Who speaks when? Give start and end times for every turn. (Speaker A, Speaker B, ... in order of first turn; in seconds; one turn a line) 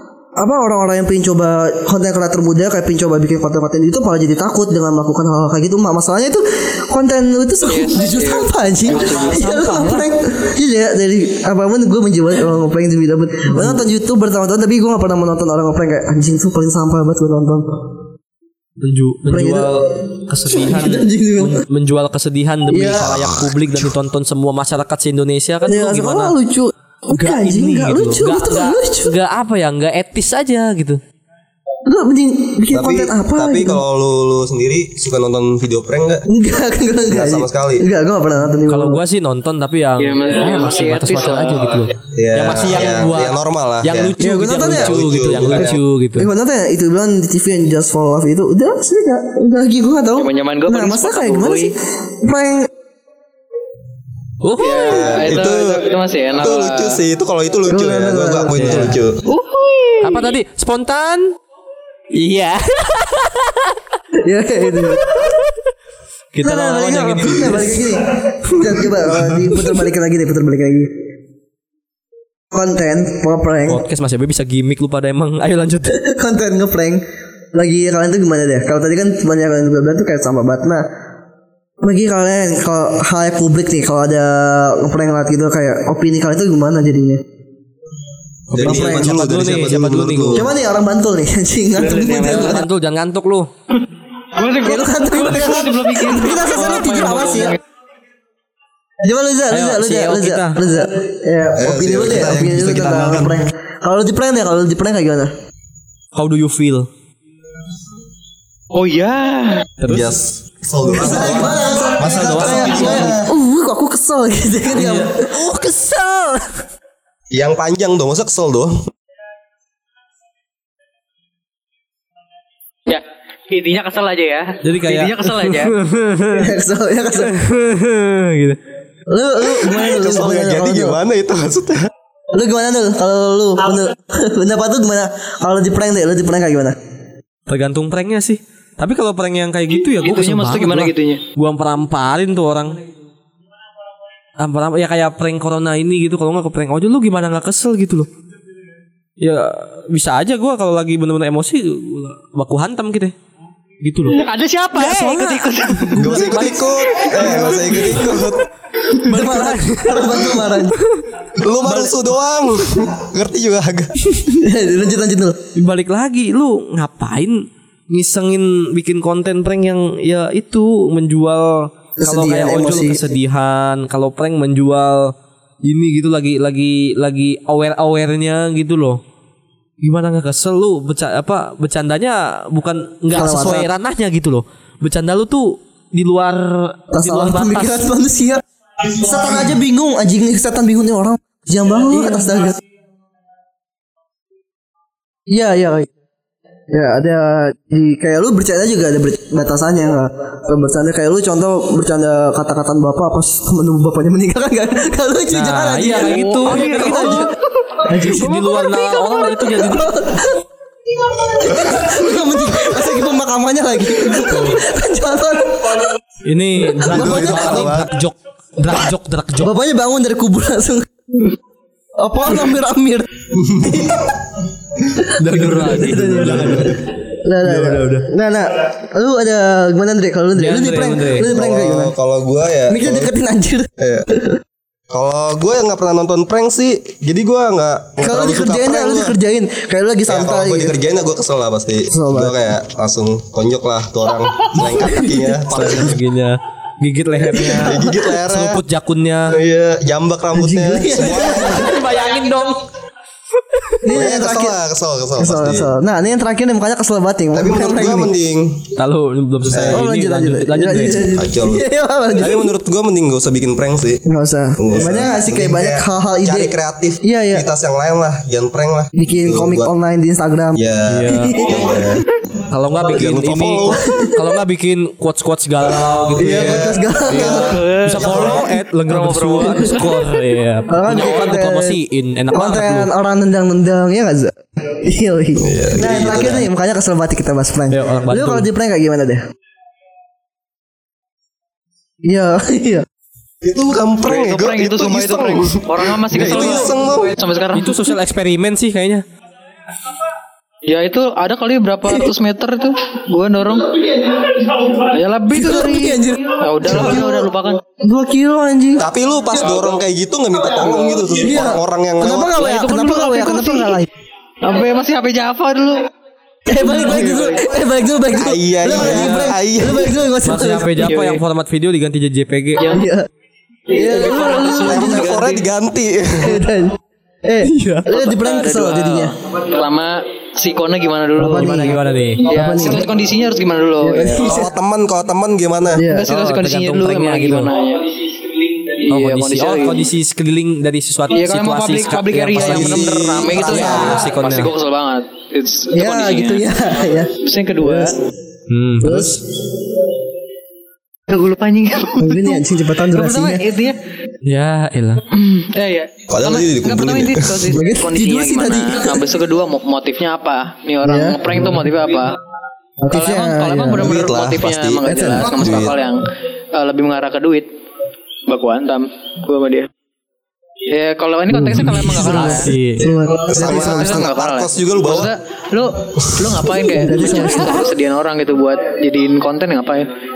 Speaker A: 0.4-17.9
Speaker B: 7.6-9.4
Speaker C: 8.9-10.1
Speaker C: 18.8-26.3
Speaker A: 19.3-21.6
Speaker A: 22.7-23.4
Speaker A: 25.7-29.1
Speaker C: 27.1-31.0
Speaker A: 31.9-33.8
Speaker D: 32.7-36.2
Speaker A: 36.3-39.0
Speaker D: 37.1-37.8
Speaker C: 38.7-46.3
Speaker B: 40.0-41.9
Speaker D: 42.1-45.8
Speaker A: 44.2-52.7
Speaker B: 50.2-51.7
Speaker C: 54.4-55.3
Speaker B: 54.6-57.0
Speaker D: 54.9-59.2
Speaker A: 57.7-58.9
Speaker C: 58.5-58.9
Speaker B: 59.3-60.3
Speaker C: 60.0-61.3
Speaker C: 62.1-63.7
Speaker A: 64.2-65.0
Speaker C: 65.0-65.5
Speaker C: 66.3-67.9
Speaker A: 66.4-70.9
Speaker D: 69.1-69.5
Speaker A: 72.5-73.8
Speaker C: 73.7-76.0
Speaker A: 75.9-77.0
Speaker A: 77.5-80.8
Speaker A: 81.8-87.2
Speaker C: 88.5-90.5
Speaker D: 88.5-90.5
Speaker A: 88.5-89.2
Speaker A: 90.3-92.6
Speaker C: 91.8-93.5
Speaker B: 93.7-97.6
Speaker A: 94.6-97.5
Speaker A: 99.0-105.3
Speaker C: 99.5-100.6
Speaker D: 101.5-103.4
Speaker C: 106.1-106.9
Speaker B: 108.7-109.7
Speaker C: 109.8-110.2
Speaker D: 109.9-113.3
Speaker A: 110.9-115.3
Speaker C: 112.0-113.2
Speaker C: 114.7-116.6
Speaker D: 117.3-118.8
Speaker B: 122.9-125.7
Speaker C: 124.6-126.5
Speaker A: 126.3-127.3
Speaker C: 127.1-128.6
Speaker A: 129.1-131.0
Speaker D: 129.8-131.9
Speaker A: 132.3-136.8
Speaker C: 137.5-142.8
Speaker B: 139.8-141.2
Speaker C: 144.4-148.1
Speaker C: 149.2-153.2
Speaker C: 153.8-154.2
Speaker B: 154.1-157.1
Speaker C: 154.7-156.5
Speaker D: 155.9-158.4
Speaker A: 156.1-156.6
Speaker A: 157.1-157.9
Speaker C: 158.9-161.0
Speaker A: 159.0-160.8
Speaker D: 161.4-164.0
Speaker C: 161.7-161.9
Speaker A: 164.3-165.4
Speaker C: 165.6-175.1
Speaker A: 172.0-173.1
Speaker C: 175.6-179.0
Speaker C: 179.8-187.9
Speaker A: 183.1-183.7
Speaker A: 186.9-192.6
Speaker A: 195.3-195.9
Speaker A: 196.7-207.3
Speaker C: 205.3-207.3
Speaker A: 207.8-208.7
Speaker C: 207.9-210.0
Speaker A: 209.3-210.4
Speaker A: 211.0-215.9
Speaker C: 214.3-214.6
Speaker C: 216.2-219.5
Speaker A: 216.7-217.7
Speaker D: 216.8-217.9
Speaker A: 219.4-221.3
Speaker A: 222.0-224.1
Speaker D: 223.3-224.1
Speaker A: 225.0-231.9
Speaker C: 225.2-226.8
Speaker D: 226.2-226.7
Speaker C: 227.4-228.1
Speaker C: 230.3-231.3
Speaker D: 231.3-233.1
Speaker A: 232.7-234.4
Speaker D: 233.8-234.1
Speaker D: 234.9-239.2
Speaker A: 238.0-240.8
Speaker D: 240.1-246.0
Speaker A: 241.9-242.6
Speaker A: 244.6-245.7
Speaker C: 245.5-249.4
Speaker D: 247.3-248.6
Speaker D: 249.3-251.8
Speaker A: 250.3-251.8
Speaker C: 251.1-252.6
Speaker C: 253.5-253.8
Speaker A: 253.8-254.6
Speaker D: 253.9-255.7
Speaker A: 255.2-258.1
Speaker D: 257.3-258.7
Speaker C: 258.8-261.2
Speaker D: 259.5-259.8
Speaker A: 259.7-262.5
Speaker D: 260.7-264.0
Speaker A: 264.1-267.4
Speaker D: 264.6-269.7
Speaker A: 268.9-271.9
Speaker D: 270.5-272.1
Speaker C: 270.9-271.8
Speaker C: 272.5-282.9
Speaker D: 272.8-273.8
Speaker A: 273.8-274.1
Speaker D: 276.1-277.2
Speaker A: 276.1-277.6
Speaker B: 277.2-280.3
Speaker D: 277.9-278.4
Speaker A: 279.4-279.8
Speaker A: 280.7-281.8
Speaker A: 282.3-289.2
Speaker D: 285.4-286.4
Speaker C: 287.7-288.5
Speaker A: 292.1-292.8
Speaker D: 293.4-297.1
Speaker B: 294.0-297.9
Speaker C: 296.2-296.6
Speaker C: 297.5-299.0
Speaker B: 300.6-307.6
Speaker A: 305.3-309.8
Speaker D: 308.8-312.4
Speaker A: 310.4-313.9
Speaker B: 312.4-313.8
Speaker B: 314.4-315.9
Speaker A: 316.5-320.9
Speaker B: 316.6-317.5
Speaker D: 318.1-320.0
Speaker C: 318.7-319.3
Speaker C: 320.2-322.7
Speaker B: 320.8-321.2
Speaker B: 322.6-322.9
Speaker A: 322.7-323.1
Speaker B: 323.7-325.4
Speaker A: 323.7-325.2
Speaker D: 324.6-326.4
Speaker A: 326.1-329.1
Speaker C: 327.4-327.9
Speaker B: 327.9-334.4
Speaker A: 331.2-332.9
Speaker C: 331.3-332.3
Speaker A: 333.8-334.5
Speaker D: 334.2-335.8
Speaker A: 335.7-336.1
Speaker B: 335.9-339.9
Speaker C: 335.9-337.5
Speaker C: 338.9-344.5
Speaker B: 341.1-346.5
Speaker D: 342.4-344.1
Speaker A: 345.7-348.0
Speaker B: 347.1-348.0
Speaker C: 348.5-349.2
Speaker A: 348.8-349.2
Speaker B: 351.1-353.8
Speaker A: 352.0-353.4
Speaker C: 354.2-355.0
Speaker B: 355.1-362.2
Speaker D: 356.1-357.5
Speaker A: 357.5-359.1
Speaker A: 360.8-361.6
Speaker A: 362.8-364.0
Speaker B: 362.9-367.5
Speaker D: 363.8-365.7
Speaker A: 364.8-365.7
Speaker B: 368.3-369.7
Speaker B: 370.7-372.5
Speaker A: 371.3-374.1
Speaker C: 371.6-372.9
Speaker D: 373.3-375.1
Speaker B: 373.4-379.9
Speaker D: 375.9-376.8
Speaker A: 376.7-377.7